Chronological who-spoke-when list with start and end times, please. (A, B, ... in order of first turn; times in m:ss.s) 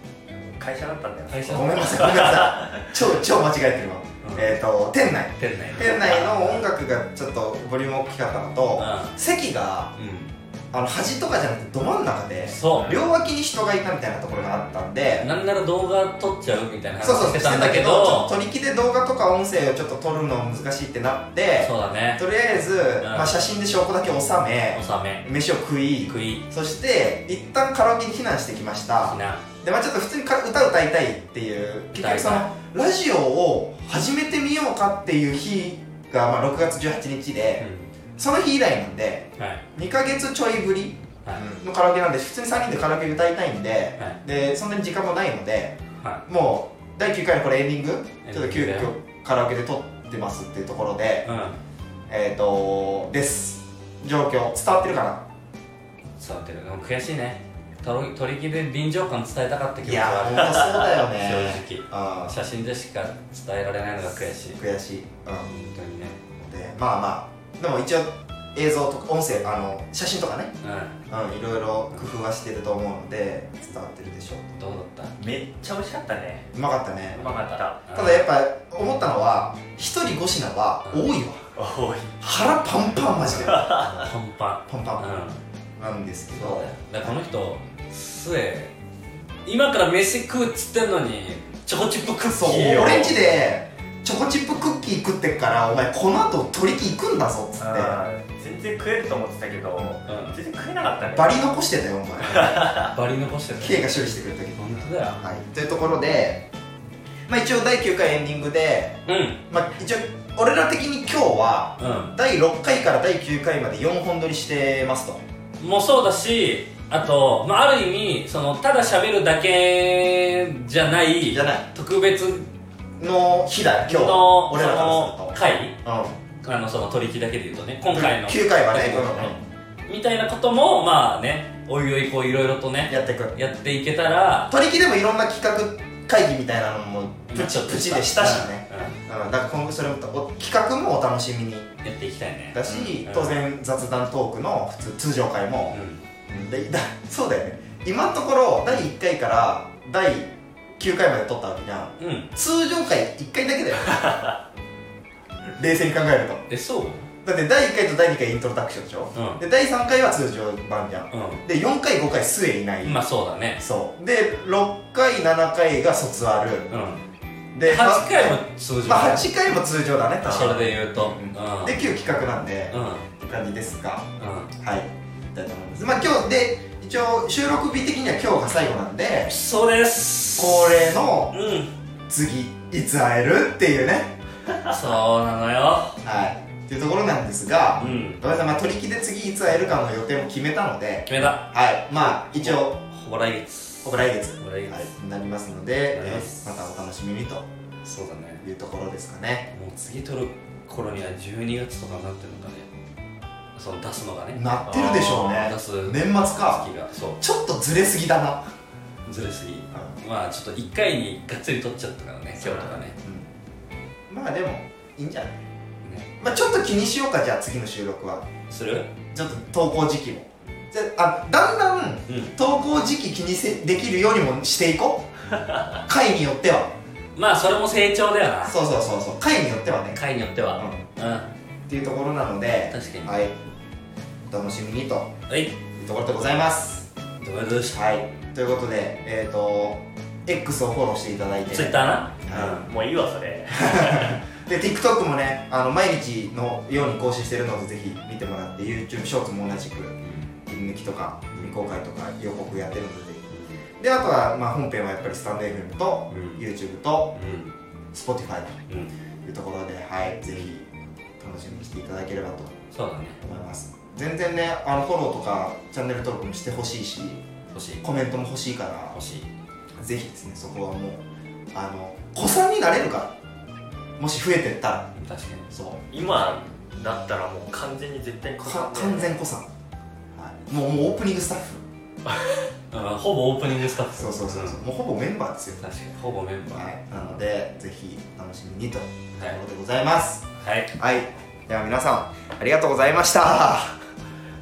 0:00.3-0:02.9 A
0:01.3-0:02.6 B
0:01.5-0:09.9 C
0:04.2-0:04.6 B
0:05.4-0:06.7 B
0:08.8-0:09.1 B
0:10.0-0:10.3 B
0:10.7-0:15.3 C
0:12.5-0:13.0 B
0:15.2-0:18.3 B
0:17.0-0:51.3 C
0:21.6-0:22.2 B
0:23.0-0:23.4 B
0:24.7-0:25.3 B
0:26.1-0:26.4 B
0:29.0-0:29.4 B
0:31.9-0:32.5 B
0:37.6-0:37.9 B
0:39.4-0:39.6 B
0:46.0-0:46.2 B
0:48.2-0:48.9 B
0:51.2-0:51.6 B
0:52.1-0:55.2 C
0:56.2-1:04.6 B
0:59.8-1:02.3 C
1:04.5-1:05.5 C
1:05.4-1:06.2 B
1:06.3-1:10.5 C
1:10.6-1:11.0 B
1:11.1-1:14.6 C
1:14.6-1:15.2 B
1:15.2-1:16.5 A
1:16.5-1:17.2 C
1:17.1-1:17.8 A
1:17.2-1:18.3 B
1:17.9-1:21.4 C
1:21.6-1:22.2 A
1:22.2-1:23.9 C
1:23.4-1:24.1 A
1:23.9-1:25.4 B
1:24.7-1:25.2 C
1:25.8-1:27.2 C
1:26.3-1:28.7 B
1:29.4-1:33.2 B
1:32.3-1:38.0 C
1:37.6-1:41.4 A
1:40.0-1:40.4 B
1:41.0-1:42.6 C
1:42.2-1:45.2 B
1:42.3-1:42.9 A
1:43.6-1:46.5 C
1:47.3-1:55.2 C
1:49.0-1:49.4 B
1:51.8-1:52.2 B
1:55.6-2:02.5 B
2:01.3-2:01.7 C
2:03.0-2:06.2 C
2:03.8-2:05.8 B
2:06.4-2:14.5 B
2:07.9-2:09.4 C
2:12.9-2:13.4 C
2:14.5-2:21.7 C
2:17.3-2:19.0 B
2:21.8-2:23.4 B
2:22.5-2:34.0 C
2:25.7-2:26.0 B
2:32.0-2:32.3 B
2:35.6-2:36.4 C
2:36.5-2:37.1 B
2:37.2-2:43.0 C
2:39.1-2:39.4 B
2:41.1-2:41.4 B
2:42.8-2:43.6 B
2:43.6-2:46.7 C
2:46.7-2:47.0 B
2:47.5-2:59.3 C
2:47.6-2:49.3 B
2:50.2-2:51.8 B
2:52.7-2:53.1 B
2:54.2-2:54.5 B
2:59.3-3:01.7 B
3:00.4-3:01.4 C
3:02.1-3:04.2 C
3:04.6-3:06.0 B
3:06.0-3:12.8 C
3:07.8-3:08.2 B
3:11.1-3:14.9 B
3:13.8-3:17.5 C
3:15.9-3:16.5 B
3:17.8-3:18.4 B
3:18.4-3:19.5 C
3:19.5-3:22.7 B
3:23.5-3:27.2 B
3:24.3-3:26.7 C
3:24.7-3:25.1 A
3:27.2-3:28.4 C
3:29.0-3:33.0 B
3:32.4-3:32.8 A
3:33.0-3:33.3 C
3:34.1-3:35.4 C
3:35.8-3:36.1 B
3:36.2-3:38.3 C
3:38.5-3:38.9 B
3:39.1-3:45.1 C
3:42.1-3:42.4 B
3:45.8-3:46.8 C
3:47.2-3:48.6 B
3:48.4-3:50.0 C
3:49.9-3:51.3 B
3:50.6-3:50.8 C
3:51.7-3:53.4 C
3:52.7-3:53.2 B
3:54.3-3:55.2 C
3:55.3-3:55.6 B
3:55.7-3:56.9 C
3:57.2-3:57.8 B
3:57.7-4:02.7 C
4:01.5-4:02.7 B
4:02.3-4:04.2 A
4:03.5-4:17.2 C
4:10.0-4:10.3 B
4:13.3-4:13.6 B
4:16.1-4:16.4 B
4:17.1-4:17.5 B
4:17.9-4:18.6 C
4:18.7-4:18.9 B
4:19.2-4:20.7 C
4:21.2-4:22.6 C
4:22.7-4:23.2 B
4:23.2-4:27.2 C
4:27.5-4:27.8 B
4:27.8-4:29.0 C
4:28.9-4:29.3 B
4:29.8-4:33.1 C
4:34.0-4:34.9 C
4:34.9-4:35.5 B
4:35.5-4:35.8 C
4:35.9-4:39.2 A
4:36.1-4:36.4 B
4:38.4-4:39.5 C
4:40.1-4:41.6 C
4:42.7-4:44.6 B
4:44.0-4:45.7 C
4:45.6-4:46.7 B
4:46.5-4:53.8 C
4:50.4-4:50.7 B